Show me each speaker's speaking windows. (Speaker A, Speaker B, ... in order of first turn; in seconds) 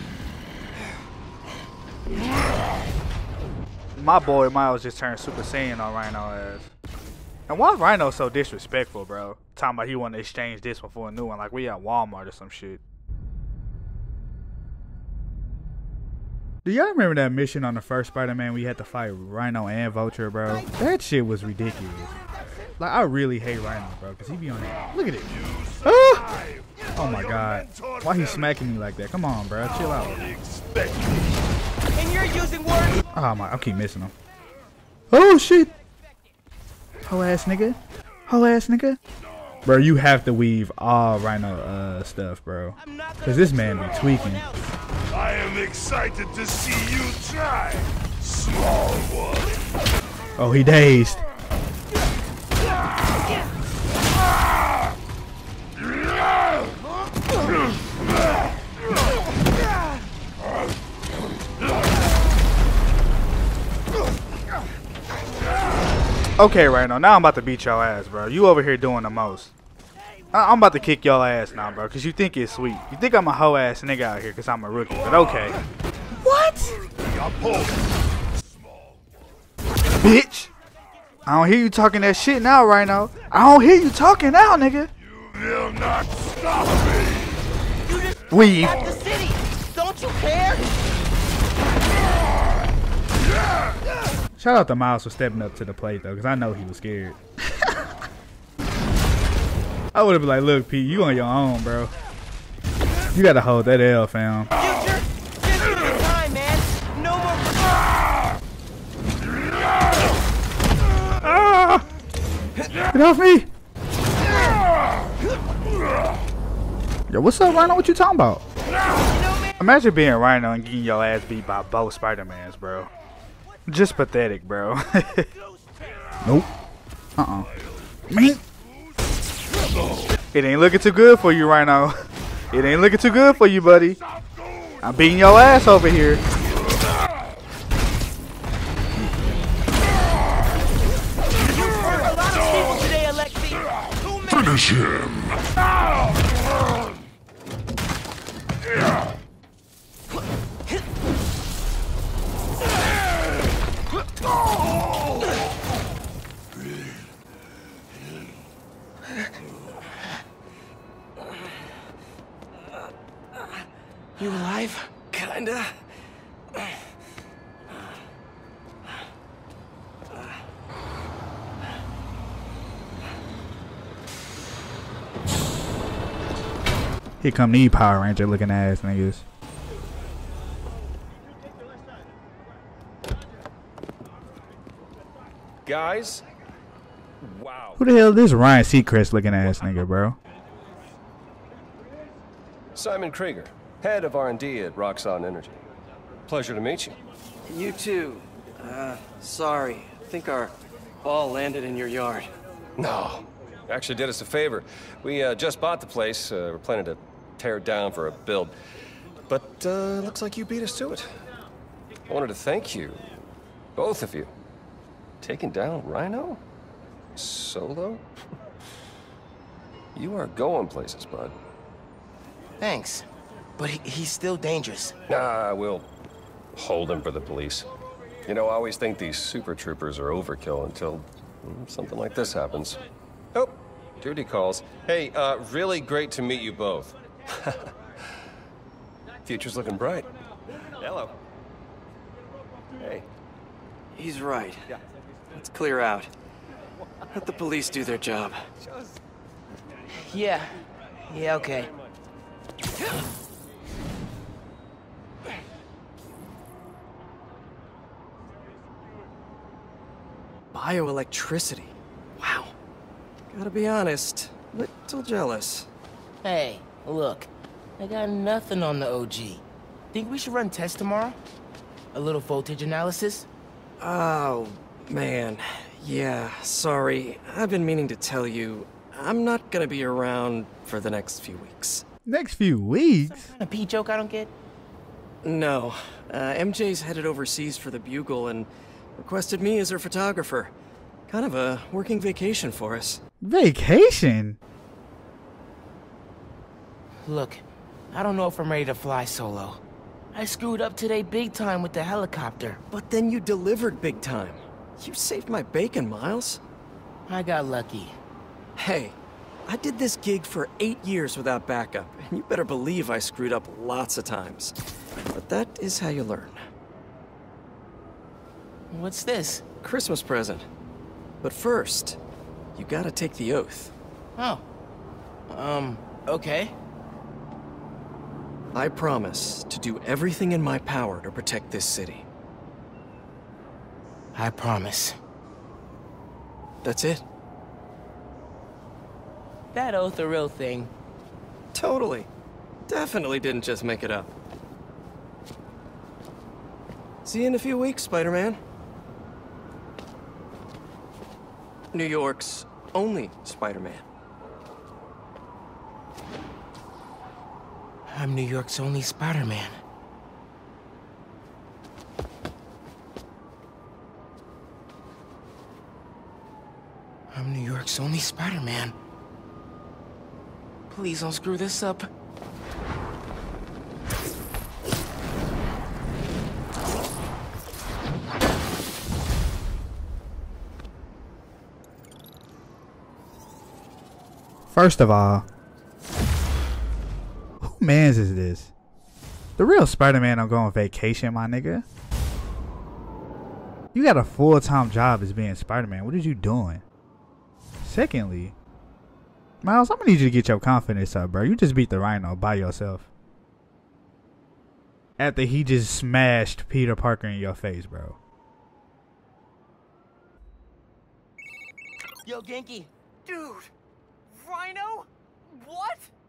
Speaker A: 3.9-6.7, 7.5-12.8, 16.6-22.2, 22.8-25.3, 25.8-26.2, 26.9-30.3, 33.1-34.1, 35.1-35.7, 37.1-39.0, 39.6-44.4, 50.4-51.2, 66.4-69.5, 70.3-75.6, 76.2-76.8, 80.0-80.5, 81.2-84.9, 88.3-88.8, 94.4-97.8, 99.9-101.9, 103.1-104.5, 111.2-111.8, 112.9-113.5, 117.1-118.4, 119.6-122.9, 123.7-125.3, 126.2-126.5, 127.2-127.5, 128.1-128.4, 130.3-134.0, 134.8-136.2, 177.2-179.2, 187.8-190.2, 282.1-283.3, 293.2-294.4, 384.5-385.2, 387.4-388.5, 389.4-391.6, 393.7-396.6, 397.6-398.3, 399.4-402.9, 405.0-408.0
Speaker B: 25.2-28.6, 29.6-31.1, 45.1-49.6, 76.8-77.8, 78.4-79.0, 85.1-87.4, 144.6-145.1
Speaker C: 31.9-33.0, 42.8-44.6, 87.8-90.7, 104.6-107.8, 119.0-119.6, 141.4-144.6, 164.2-164.9, 222.6-223.1, 223.6-225.0, 250.0-251.7, 266.2-271.2, 271.9-273.3, 283.1-284.3, 297.0-299.6, 300.1-302.6, 307.1-308.0, 318.7-319.4, 324.2-324.4, 325.3-326.5, 334.1-335.0, 339.5-340.7, 357.9-359.6, 367.1-368.7, 370.7-371.9, 412.0-412.7
Speaker D: 165.1-165.8, 197.5-202.3, 243.9-244.6, 245.3-246.1, 247.1-248.4, 260.5-262.5, 263.3-265.7, 273.8-281.8, 285.2-290.5, 291.1-293.0, 302.7-306.4, 308.6-314.5, 315.1-316.4, 319.6-320.4, 321.2-322.0, 322.5-323.7, 328.5-332.1, 336.6-337.0, 341.5-342.1, 342.7-344.1, 347.0-348.4, 351.7-353.8
Speaker E: 185.7-186.2, 187.2-187.8, 192.7-195.6, 196.3-197.0, 202.8-208.5, 209.3-211.1, 212.1-213.1, 213.8-214.3, 215.2-216.4, 217.1-218.0, 219.9-221.3, 225.1-225.9, 226.5-227.7, 228.2-232.8, 233.3-237.7, 239.2-240.1, 240.8-241.2, 242.8-243.1
Speaker F: 413.0-413.5, 414.1-415.9